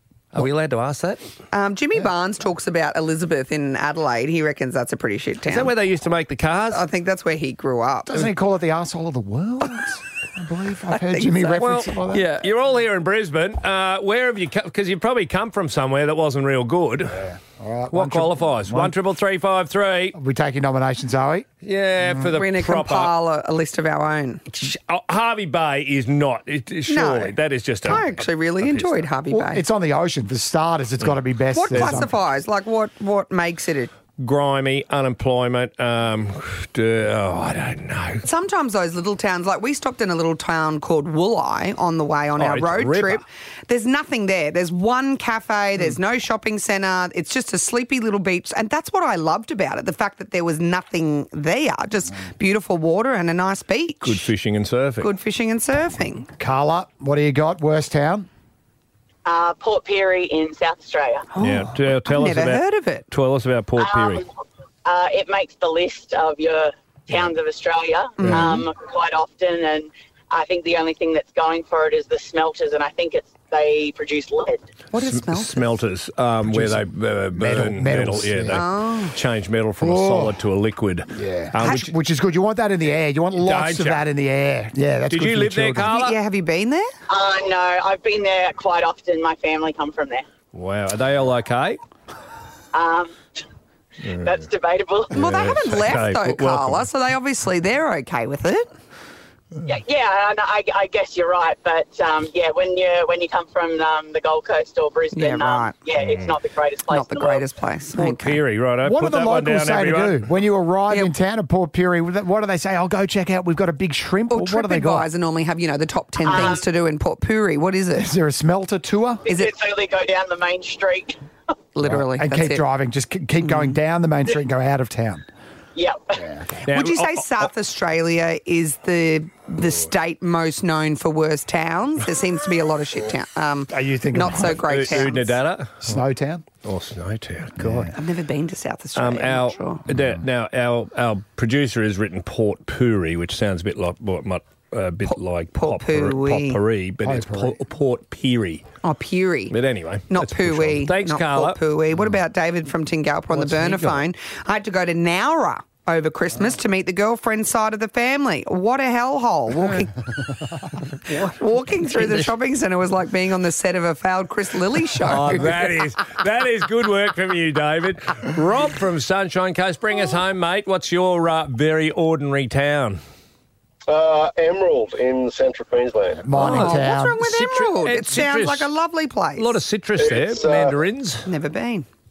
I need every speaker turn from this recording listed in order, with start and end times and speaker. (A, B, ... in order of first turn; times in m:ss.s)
0:00.3-0:01.2 A
0:01.5-0:05.7 B
0:05.5-0:06.8 A
0:06.7-0:08.2 B
0:08.1-0:12.3 C
0:10.9-0:11.8 B
0:11.6-0:17.2 A
0:17.1-0:18.9 C
0:17.9-0:20.2 A
0:20.2-0:21.5 C
0:21.6-0:23.1 A
0:22.2-0:24.4 B
0:24.5-0:29.0 A
0:26.9-0:29.6 B
0:29.3-0:32.2 C
0:31.6-0:33.9 B
0:34.2-0:38.2 A
0:38.2-0:54.3 B
0:42.4-0:43.2 A
0:54.0-0:55.1 A
0:55.0-0:56.3 B
0:56.4-0:58.3 C
0:59.3-1:01.3 D
1:01.4-1:03.0 B
1:01.4-1:04.2 A
1:03.8-1:04.3 D
1:04.9-1:14.7 D
1:14.9-1:15.7 B
1:15.0-1:21.9 A
1:16.4-1:18.6 C
1:18.5-1:19.1 B
1:19.8-1:20.3 C
1:21.1-1:25.9 C
1:23.4-1:24.0 A
1:25.1-1:26.2 A
1:25.8-1:26.9 B
1:27.1-1:30.3 D
1:30.5-1:31.8 A
1:32.7-1:33.2 D
1:34.0-1:34.4 A
1:34.1-1:35.1 D
1:35.1-1:36.9 A
1:35.1-1:38.7 B
1:39.7-1:47.4 D
1:45.1-1:45.7 B
1:46.9-1:48.4 B
1:47.9-1:50.2 A
1:48.8-1:55.1 C
1:54.3-1:58.1 B
1:56.2-1:56.7 D
1:58.0-1:59.2 C
1:59.3-2:01.2 D
2:01.8-2:02.6 B
2:01.8-2:05.3 C
2:05.8-2:06.2 D
2:06.2-2:06.5 C
2:06.6-2:15.4 B
2:06.7-2:07.5 A
2:13.7-2:15.0 C
2:14.4-2:16.0 A
2:15.8-2:16.4 C
2:16.6-2:17.9 A
2:17.6-2:17.9 C
2:18.0-2:19.8 B
2:19.0-2:28.6 A
2:25.1-2:26.6 B
2:27.0-2:27.6 C
2:28.8-2:29.5 B
2:29.5-2:31.6 A
2:30.1-2:39.9 B
2:33.3-2:34.0 A
2:41.1-2:42.3 A
2:41.1-2:45.5 B
2:45.1-2:53.0 A
2:53.9-2:56.3 E
2:56.2-2:57.2 C
2:56.4-2:59.6 B
2:56.4-2:58.7 A
2:59.4-3:01.3 A
3:00.0-3:00.8 E
3:01.2-3:01.9 B